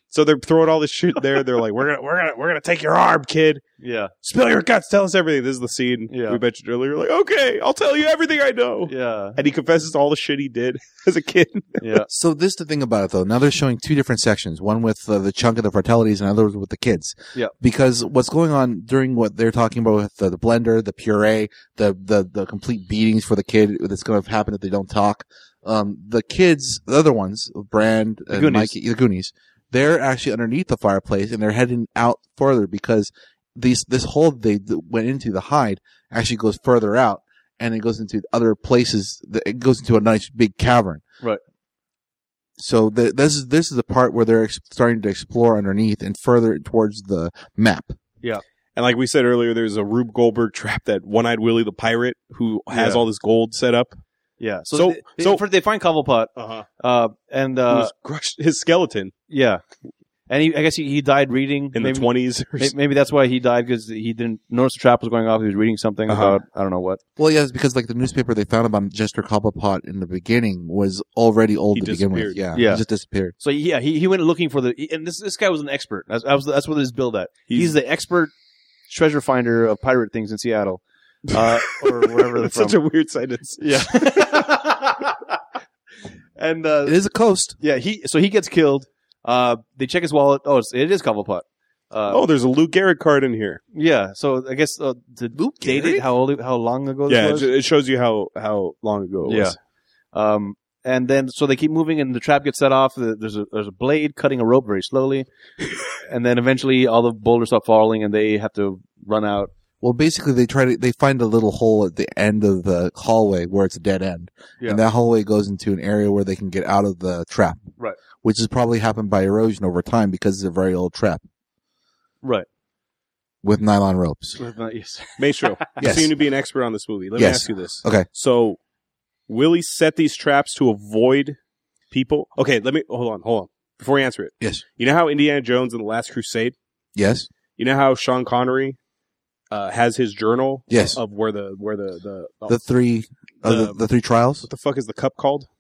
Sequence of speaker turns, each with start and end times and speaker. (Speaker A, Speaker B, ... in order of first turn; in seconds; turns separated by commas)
Speaker A: 0.1-3.6, Speaker B: 3.8-4.1, Speaker A: 4.2-11.9, Speaker B: 6.1-6.4, Speaker B: 8.9-9.4, Speaker B: 11.8-12.1, Speaker C: 12.1-41.0, Speaker B: 28.3-28.7, Speaker C: 42.6-48.0, Speaker A: 48.8-54.0, Speaker B: 52.7-53.0, Speaker B: 54.4-57.9, Speaker A: 54.7-55.4, Speaker A: 56.4-56.7, Speaker A: 57.7-59.1, Speaker B: 59.3-59.6, Speaker B: 60.3-67.0, Speaker A: 61.8-62.7, Speaker A: 66.1-66.4, Speaker C: 67.2-73.3, Speaker A: 71.7-72.5, Speaker B: 72.5-72.8, Speaker B: 73.4-78.3, Speaker A: 77.5-77.8, Speaker B: 78.9-82.8, Speaker A: 81.3-84.3, Speaker B: 83.6-85.4, Speaker B: 86.4-87.0, Speaker C: 86.8-87.6, Speaker B: 87.6-92.2, Speaker A: 92.1-93.6, Speaker B: 93.7-97.5, Speaker C: 95.3-96.0, Speaker A: 97.1-99.5, Speaker B: 99.2-99.6, Speaker B: 100.1-105.3, Speaker B: 106.0-109.5, Speaker C: 109.8-117.7, Speaker C: 118.2-121.2, Speaker C: 123.4-124.4, Speaker B: 124.4-125.8, Speaker A: 125.2-128.6, Speaker C: 125.8-126.1, Speaker C: 127.2-128.1, Speaker A: 129.3-131.4, Speaker A: 131.9-136.6, Speaker C: 137.0-137.3, Speaker A: 137.6-138.8, Speaker A: 139.5-142.6, Speaker C: 140.7-141.0, Speaker C: 142.5-144.5, Speaker A: 143.4-143.8, Speaker A: 144.5-145.5